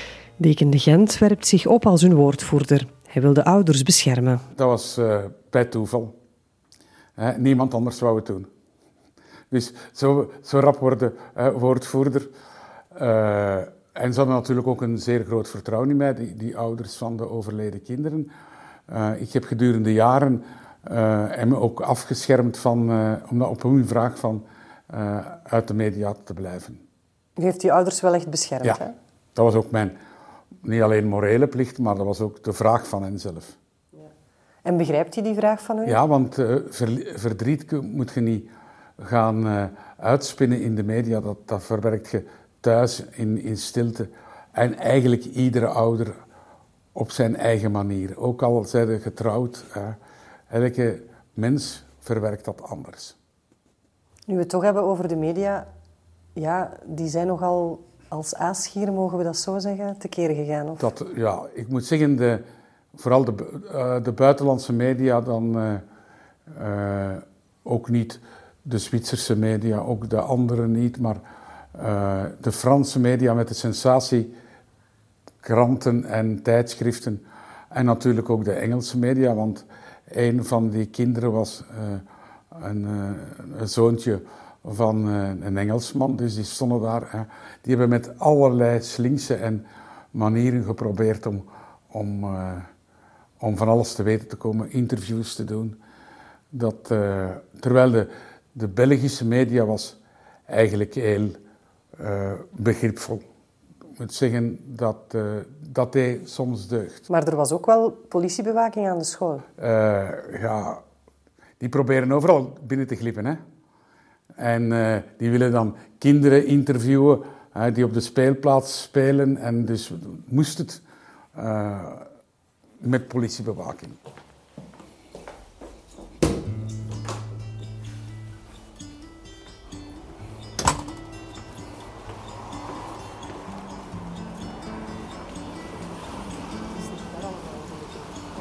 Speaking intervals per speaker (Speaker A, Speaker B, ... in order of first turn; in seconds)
Speaker A: 0.4-4.4, 27.4-28.9, 34.6-36.0, 54.3-55.7, 56.3-60.9, 107.1-109.5, 137.1-137.6
Speaker B: 4.5-6.1, 7.2-8.5, 9.5-12.3, 12.9-18.3, 18.9-26.8, 29.3-30.0, 30.6-33.5, 35.8-46.1, 46.9-50.0, 50.5-53.1, 60.8-65.8, 66.5-71.2, 71.7-74.3, 75.4-92.7, 93.4-95.8, 96.5-101.4, 102.0-103.2, 104.0-107.1, 109.6-110.8, 111.6-113.4, 114.4-120.8, 121.3-122.1, 122.8-124.0